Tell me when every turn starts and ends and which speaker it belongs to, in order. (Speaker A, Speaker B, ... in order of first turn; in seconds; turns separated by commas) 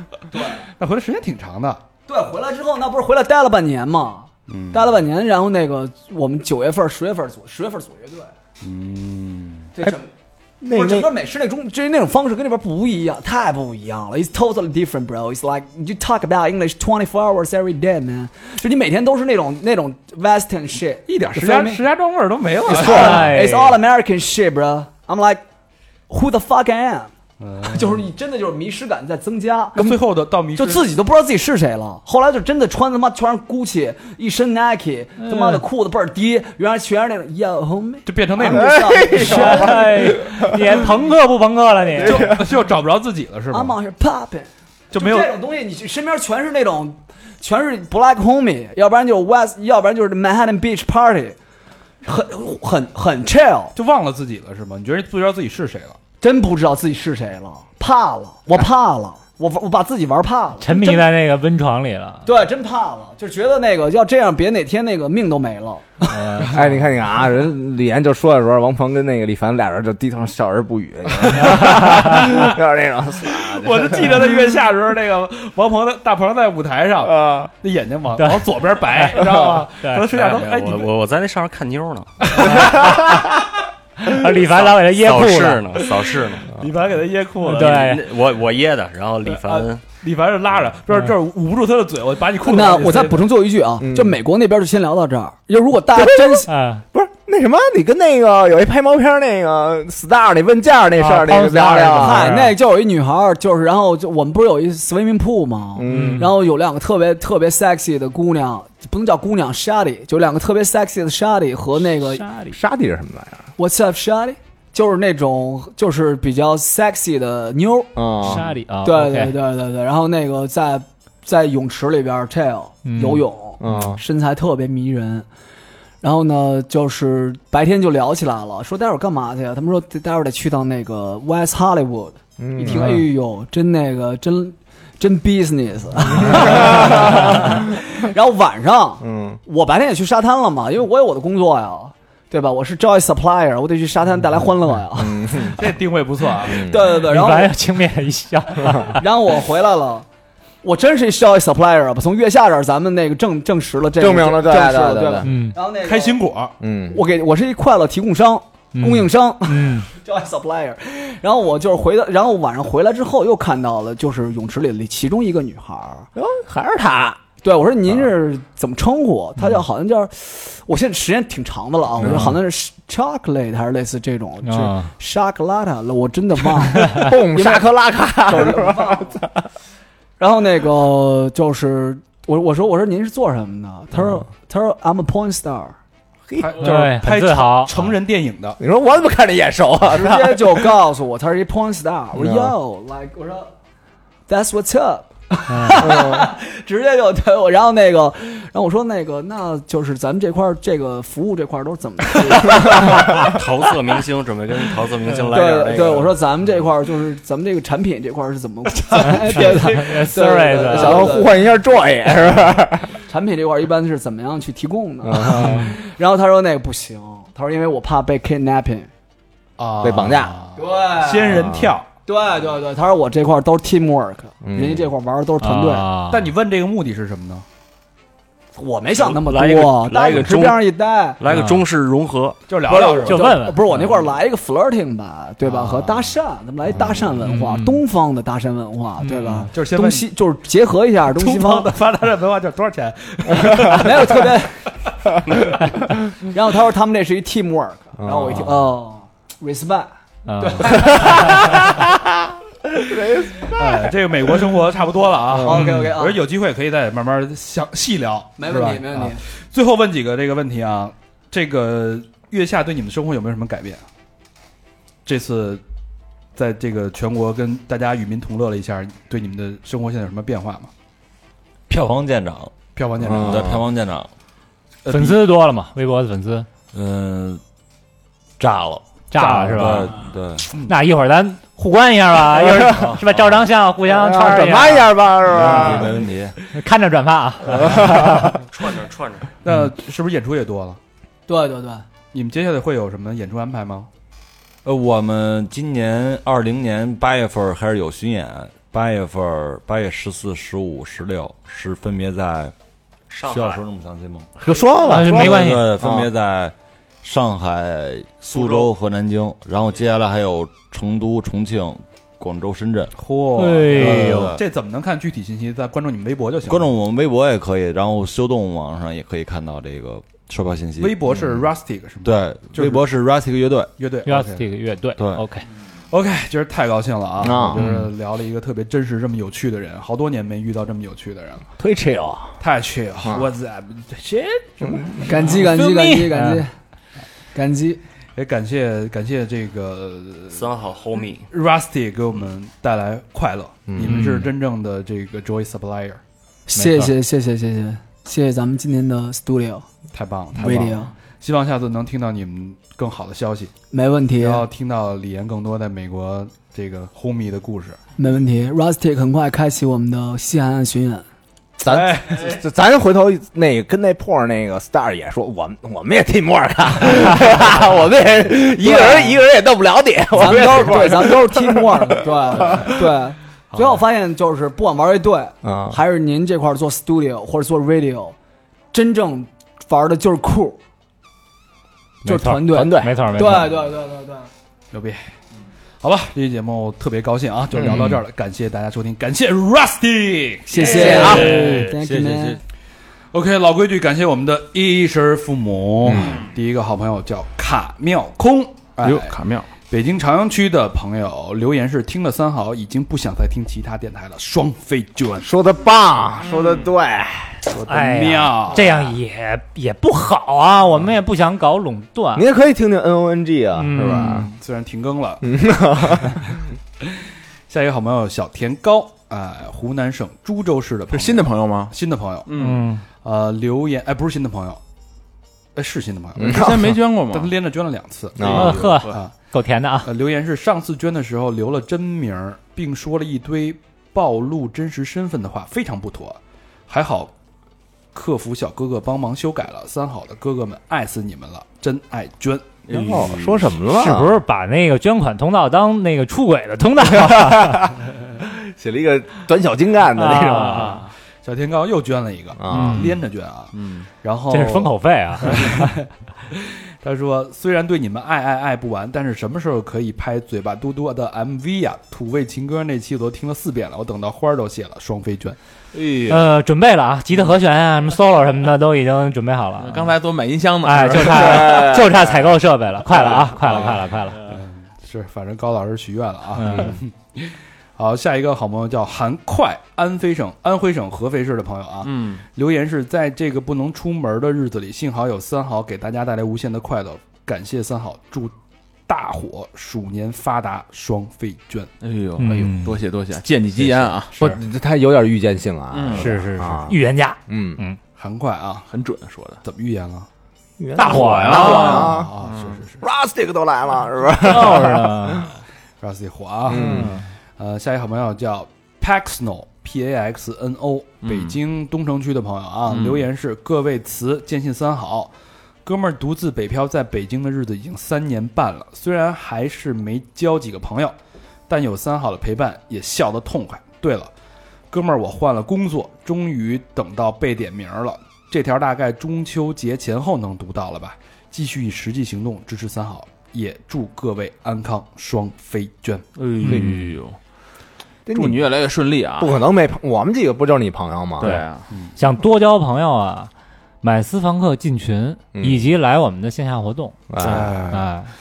Speaker A: 0.3-0.7, Speaker B: 0.8-1.8, Speaker A: 2.1-8.3, Speaker B: 4.5-5.0, Speaker B: 8.6-9.7, Speaker A: 9.7-10.1, Speaker C: 10.6-11.1, Speaker A: 10.7-21.8, Speaker B: 21.1-23.3, Speaker A: 22.6-25.4, Speaker D: 22.7-23.8, Speaker A: 26.1-39.9, Speaker B: 27.4-28.0, Speaker B: 29.7-30.9, Speaker D: 35.2-35.6, Speaker B: 38.0-38.9, Speaker C: 38.5-40.7, Speaker D: 39.2-42.4, Speaker C: 42.0-42.4, Speaker B: 42.0-43.8, Speaker A: 42.0-42.3, Speaker A: 43.5-51.4, Speaker B: 44.9-45.3, Speaker A: 52.0-53.7, Speaker B: 53.8-56.0, Speaker A: 56.2-61.1, Speaker D: 60.6-62.3, Speaker A: 62.2-66.2, Speaker D: 66.1-66.6, Speaker C: 66.5-74.4, Speaker D: 71.4-72.4, Speaker B: 73.2-80.9, Speaker C: 77.0-77.5, Speaker D: 78.2-80.1, Speaker E: 80.1-82.2, Speaker B: 82.2-82.9, Speaker D: 82.4-83.3, Speaker D: 84.0-85.8, Speaker E: 84.3-86.5, Speaker B: 86.5-87.9, Speaker D: 87.4-88.1, Speaker E: 87.5-89.8, Speaker B: 89.2-93.3, Speaker A: 92.5-96.5, Speaker C: 93.8-94.2, Speaker C: 95.9-102.3, Speaker D: 96.5-96.8, Speaker D: 101.0-102.5, Speaker A: 102.0-112.2, Speaker C: 105.8-106.3, Speaker D: 105.8-106.3, Speaker D: 112.2-112.5, Speaker C: 112.5-113.5, Speaker A: 113.6-117.9, Speaker C: 118.0-118.5, Speaker D: 118.2-119.3, Speaker A: 118.8-125.2, Speaker D: 122.8-123.9, Speaker C: 123.6-124.0, Speaker A: 126.0-145.6, Speaker C: 132.4-133.0, Speaker D: 132.7-133.0, Speaker C: 136.1-137.6, Speaker C: 139.0-139.4, Speaker C: 144.9-145.6, Speaker B: 145.6-146.6, Speaker C: 146.4-146.8, Speaker A: 146.5-147.6, Speaker D: 146.9-149.0, Speaker A: 148.8-150.1, Speaker A: 150.6-156.2, Speaker C: 154.0-155.3, Speaker D: 155.2-155.6, Speaker B: 155.8-156.5, Speaker C: 156.6-157.0, Speaker A: 156.9-166.1, Speaker D: 158.7-159.9, Speaker C: 166.2-167.2, Speaker A: 167.4-179.2, Speaker C: 172.0-172.3, Speaker D: 174.4-174.9, Speaker C: 176.9-179.4, Speaker A: 180.2-185.7, Speaker C: 186.3-186.7, Speaker B: 186.3-188.6, Speaker D: 186.6-187.9, Speaker C: 188.6-190.7, Speaker A: 189.9-193.5, Speaker C: 192.1-192.6, Speaker A: 194.3-203.0, Speaker D: 195.5-195.9, Speaker C: 195.8-196.3, Speaker C: 202.7-203.2, Speaker E: 203.2-206.2, Speaker A: 205.3-211.3, Speaker D: 209.1-211.1, Speaker C: 210.7-212.9, Speaker A: 213.1-218.9, Speaker C: 215.0-215.7, Speaker D: 215.4-215.7, Speaker B: 219.6-221.9, Speaker C: 219.8-220.3, Speaker A: 220.6-221.4, Speaker C: 221.3-221.7, Speaker A: 222.1-225.8, Speaker C: 224.4-224.9, Speaker D: 225.4-226.3, Speaker B: 226.1-227.4, Speaker A: 228.6-231.2, Speaker E: 228.9-230.6, Speaker E: 231.2-233.2, Speaker D: 231.3-231.6, Speaker B: 232.5-233.2, Speaker A: 232.7-241.7, Speaker D: 233.1-233.6, Speaker B: 235.4-236.1, Speaker B: 236.7-237.1, Speaker D: 237.2-237.8, Speaker D: 239.0-239.5, Speaker B: 239.5-240.1, Speaker B: 241.1-244.3, Speaker A: 243.7-244.6, Speaker A: 246.2-251.3, Speaker C: 248.0-248.7, Speaker D: 250.2-251.6, Speaker C: 250.9-251.8, Speaker C: 252.8-253.9, Speaker B: 253.5-263.8, Speaker C: 255.3-255.7, Speaker A: 255.4-256.2, Speaker A: 258.4-259.2, Speaker B: 265.1-265.6, Speaker B: 266.4-270.7, Speaker F: 271.7-274.1, Speaker B: 272.7-273.5, Speaker C: 273.0-273.6, Speaker B: 274.8-275.2, Speaker D: 274.9-276.5, Speaker F: 276.7-277.4, Speaker D: 278.4-280.0, Speaker B: 279.1-279.9, Speaker F: 279.4-280.5, Speaker D: 280.6-285.0, Speaker C: 282.4-282.7, Speaker C: 283.9-286.0, Speaker F: 285.3-286.4, Speaker D: 286.5-288.4, Speaker C: 287.6-288.3, Speaker E: 288.5-289.3, Speaker B: 289.4-290.8, Speaker A: 291.3-291.9, Speaker B: 292.1-293.9, Speaker F: 294.6-302.5, Speaker E: 303.1-303.6, Speaker F: 303.2-304.3, Speaker C: 304.4-306.1, Speaker D: 304.9-305.7, Speaker F: 304.9-312.9, Speaker E: 308.3-308.7, Speaker B: 308.4-308.6, Speaker B: 312.9-316.7, Speaker D: 313.4-314.3, Speaker F: 313.7-314.4, Speaker F: 316.5-321.5, Speaker B: 320.8-322.8, Speaker F: 322.0-323.7, Speaker B: 323.8-324.4, Speaker D: 324.0-325.5, Speaker B: 325.9-331.4, Speaker C: 327.2-327.7, Speaker D: 327.6-327.9, Speaker C: 331.6-332.3, Speaker B: 332.4-335.3, Speaker A: 335.0-336.5, Speaker D: 335.2-336.4, Speaker A: 337.3-337.8, Speaker B: 338.1-340.5, Speaker E: 340.3-341.3, Speaker B: 341.3-346.0, Speaker C: 343.7-344.0, Speaker D: 343.8-344.3, Speaker A: 346.5-349.6, Speaker D: 346.5-346.9, Speaker B: 349.9-353.5, Speaker A: 350.4-350.9, Speaker A: 353.7-354.4, Speaker B: 354.2-357.8, Speaker A: 358.0-361.0, Speaker C: 361.6-372.8, Speaker B: 361.6-362.3, Speaker A: 368.6-369.2, Speaker A: 370.1-378.1, Speaker C: 375.4-375.8, Speaker A: 378.7-380.6, Speaker D: 382.0-383.5, Speaker A: 382.0-384.3, Speaker C: 382.5-383.2, Speaker B: 384.7-385.1, Speaker B: 385.8-391.4, Speaker C: 387.5-387.9, Speaker D: 387.6-388.0, Speaker A: 390.5-392.4, Speaker F: 390.7-392.4, Speaker C: 390.8-391.3, Speaker G: 391.0-391.7, Speaker B: 393.1-405.3, Speaker C: 395.8-396.2, Speaker G: 398.8-399.5, Speaker C: 405.2-407.4, Speaker B: 407.5-408.7, Speaker D: 407.6-412.2, Speaker C: 412.1-414.3, Speaker D: 413.6-414.3, Speaker B: 413.8-416.9, Speaker C: 415.2-416.4, Speaker B: 417.5-422.3, Speaker G: 420.9-421.7, Speaker G: 422.3-422.7, Speaker D: 422.4-422.8, Speaker B: 422.9-424.6, Speaker B: 425.6-429.1, Speaker C: 426.2-426.8, Speaker G: 426.2-427.3, Speaker C: 428.2-428.8, Speaker D: 428.3-429.9, Speaker G: 428.3-429.0, Speaker B: 429.8-437.1, Speaker B: 437.9-442.6, Speaker C: 442.7-444.2, Speaker G: 442.7-443.4, Speaker F: 442.7-443.2, Speaker D: 443.6-447.7, Speaker C: 446.9-450.8, Speaker D: 449.9-450.8, Speaker B: 451.2-465.4, Speaker C: 452.4-452.9, Speaker D: 452.5-453.0, Speaker G: 453.5-453.9, Speaker D: 454.3-455.8, Speaker G: 465.7-466.2, Speaker D: 466.1-469.9, Speaker G: 469.6-471.8, Speaker D: 470.6-474.2, Speaker C: 471.2-472.1, Speaker G: 473.4-473.8, Speaker B: 474.3-488.3, Speaker D: 476.4-476.8, Speaker G: 481.8-482.2, Speaker B: 488.9-491.7, Speaker G: 491.8-494.1, Speaker D: 492.2-492.8, Speaker C: 494.2-497.6, Speaker G: 495.7-496.2, Speaker D: 495.9-497.8, Speaker B: 498.0-498.7, Speaker G: 498.7-499.4, Speaker B: 499.4-500.1, Speaker C: 500.6-502.1, Speaker G: 500.8-502.6, Speaker D: 500.8-501.9, Speaker B: 501.3-502.8, Speaker C: 502.8-505.3, Speaker D: 504.2-505.3, Speaker B: 505.8-515.1, Speaker C: 506.5-506.9, Speaker D: 506.5-507.0, Speaker G: 511.0-511.4, Speaker G: 512.7-513.1, Speaker B: 515.6-520.9, Speaker B: 521.5-524.1, Speaker B: 524.7-536.0, Speaker G: 536.1-537.2, Speaker D: 536.4-537.0, Speaker C: 538.0-538.5, Speaker G: 538.1-539.4, Speaker C: 539.2-541.4, Speaker G: 541.2-541.7, Speaker D: 542.0-543.3, Speaker D: 543.8-548.1, Speaker C: 545.3-545.7, Speaker C: 547.1-547.8, Speaker B: 547.2-547.9